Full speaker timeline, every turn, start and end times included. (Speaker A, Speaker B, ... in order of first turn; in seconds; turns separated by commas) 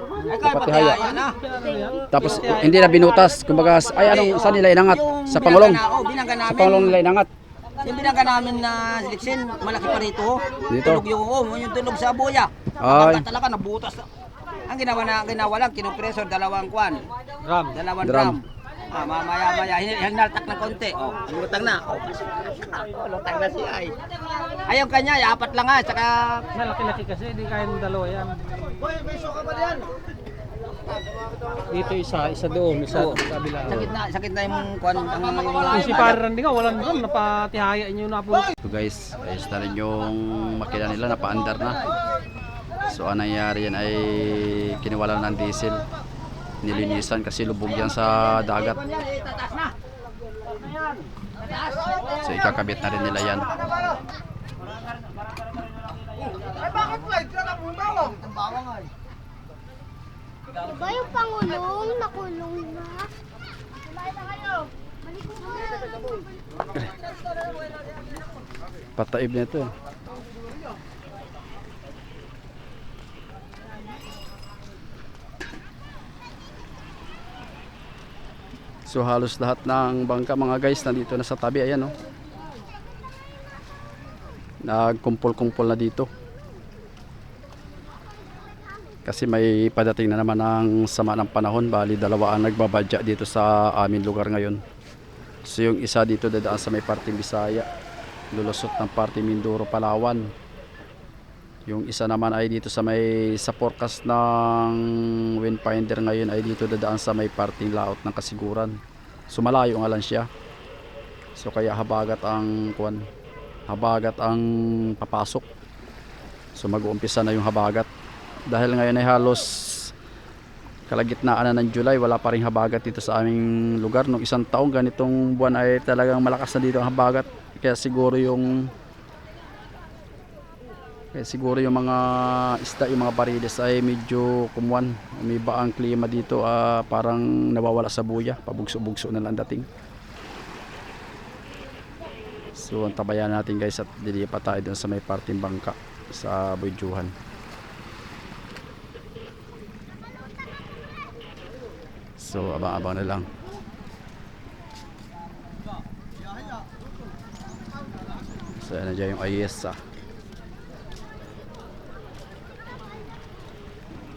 Speaker A: 0.3-1.4, Speaker B: 0.3-1.1, Speaker C: 1.1-2.9, Speaker B: 2.1-5.8, Speaker A: 4.0-7.0, Speaker B: 6.4-7.3, Speaker A: 7.8-14.0, Speaker B: 10.7-11.0, Speaker B: 12.8-13.2, Speaker A: 14.7-17.0, Speaker C: 17.4-17.7, Speaker A: 17.7-23.9, Speaker B: 18.0-18.4, Speaker A: 24.6-26.5, Speaker C: 26.5-28.4, Speaker C: 31.7-33.9, Speaker A: 33.6-36.2, Speaker C: 35.7-38.5, Speaker B: 38.6-41.8, Speaker B: 42.9-45.8, Speaker B: 46.6-48.8, Speaker A: 48.9-49.7, Speaker B: 52.2-53.5, Speaker D: 60.6-63.1, Speaker D: 65.1-66.2, Speaker B: 69.0-69.7, Speaker B: 78.9-81.9, Speaker B: 84.6-86.1, Speaker B: 89.0-94.6, Speaker B: 95.5-97.7, Speaker B: 98.3-100.3, Speaker B: 101.7-108.8, Speaker B: 109.3-110.3, Speaker B: 111.3-113.0, Speaker B: 113.7-115.5, Speaker B: 116.5-117.9, Speaker B: 118.5-119.9, Speaker B: 120.9-128.7, Speaker B: 131.1-139.7, Speaker B: 142.6-147.1, Speaker B: 152.2-153.3, Speaker B: 158.6-159.8